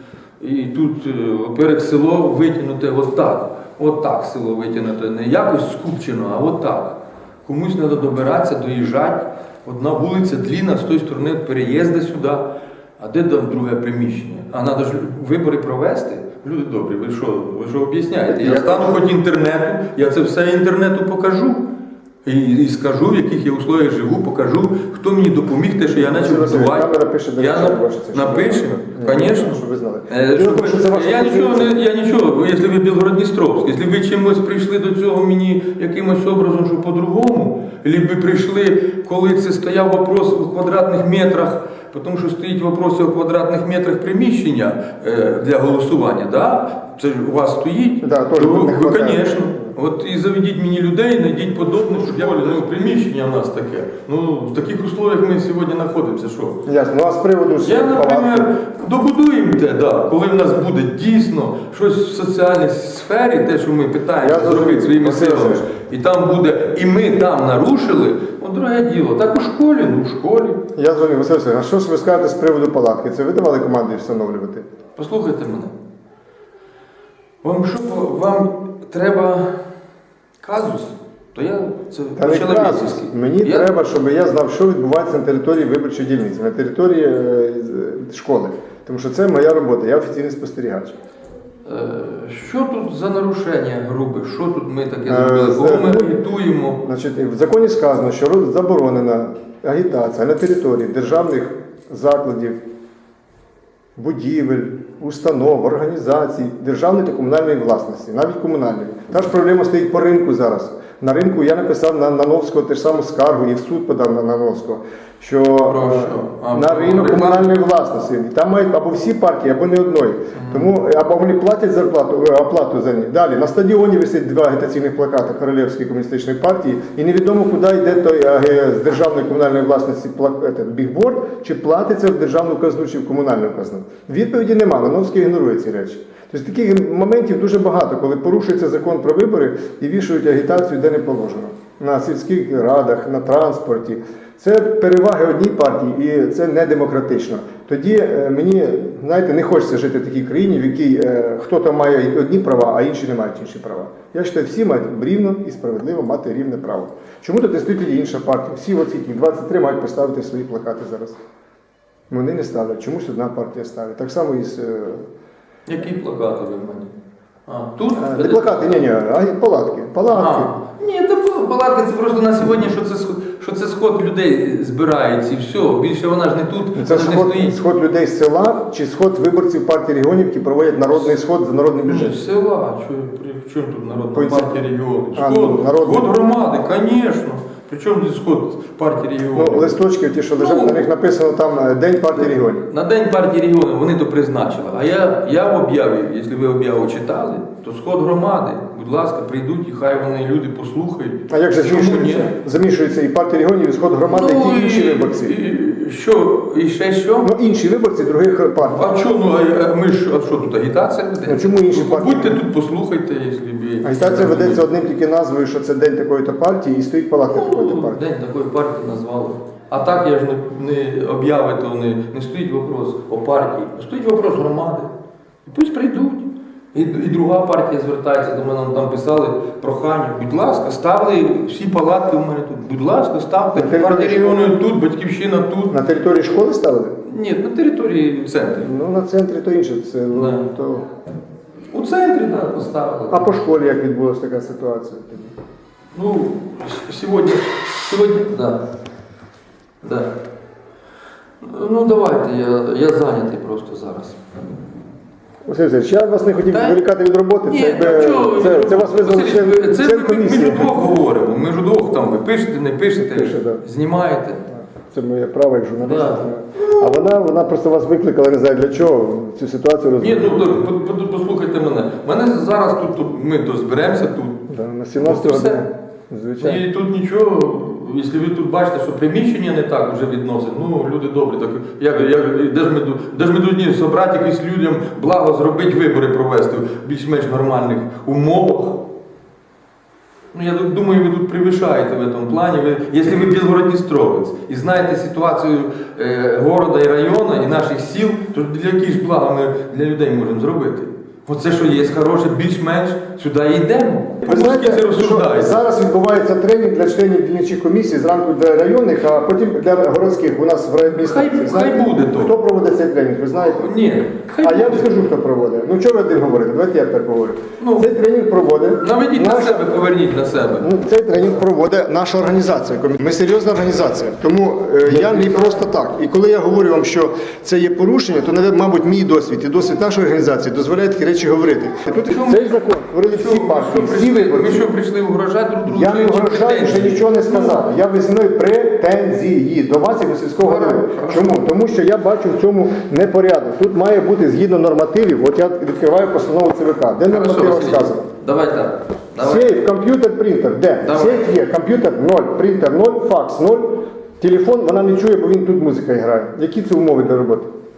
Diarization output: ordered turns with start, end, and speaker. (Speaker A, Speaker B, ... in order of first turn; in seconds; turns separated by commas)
Speaker A: 0.4-21.7, Speaker B: 18.3-19.0, Speaker A: 22.2-56.6, Speaker B: 25.9-31.7, Speaker B: 48.0-49.7, Speaker B: 56.7-58.5, Speaker A: 57.6-70.6, Speaker B: 64.2-65.7, Speaker B: 70.8-74.7, Speaker A: 75.0-75.8, Speaker A: 77.4-79.6, Speaker A: 80.4-83.7, Speaker B: 82.2-91.0, Speaker A: 91.7-96.8, Speaker B: 95.1-102.6, Speaker B: 104.0-161.2, Speaker A: 115.6-117.5, Speaker A: 120.3-120.7, Speaker B: 162.1-165.1, Speaker A: 165.7-166.9, Speaker A: 167.5-168.8, Speaker B: 168.0-170.5, Speaker A: 170.1-177.6, Speaker B: 176.8-182.2, Speaker A: 181.8-189.8, Speaker B: 184.1-184.6, Speaker B: 185.2-186.1, Speaker B: 189.3-192.7, Speaker A: 190.4-190.8, Speaker A: 192.2-202.3, Speaker B: 201.3-205.3, Speaker A: 204.1-207.3, Speaker B: 207.2-208.9, Speaker A: 208.6-214.7, Speaker B: 211.2-212.4, Speaker B: 213.8-218.0, Speaker A: 217.3-224.9, Speaker A: 225.4-235.8, Speaker B: 233.6-234.5, Speaker B: 235.7-237.0, Speaker A: 237.1-238.7, Speaker B: 238.6-240.9, Speaker A: 240.1-240.5, Speaker A: 241.7-243.3, Speaker B: 243.1-245.4, Speaker A: 245.9-248.6, Speaker A: 249.8-250.2, Speaker A: 251.4-254.2, Speaker B: 255.4-260.9, Speaker A: 256.5-256.8, Speaker A: 257.5-264.5, Speaker B: 263.0-263.6, Speaker B: 264.5-270.7, Speaker A: 265.8-266.3, Speaker A: 270.0-275.6, Speaker B: 274.5-276.6, Speaker A: 276.4-288.8, Speaker A: 290.3-305.6, Speaker B: 304.2-313.7, Speaker A: 310.9-312.3, Speaker A: 313.6-314.9, Speaker B: 314.4-319.7, Speaker A: 317.6-317.9, Speaker A: 318.8-320.7, Speaker B: 320.6-334.7, Speaker A: 324.9-325.4, Speaker A: 332.0-337.6, Speaker B: 335.7-348.1, Speaker A: 340.4-341.4, Speaker A: 347.1-349.6, Speaker B: 349.2-357.6, Speaker A: 350.8-351.3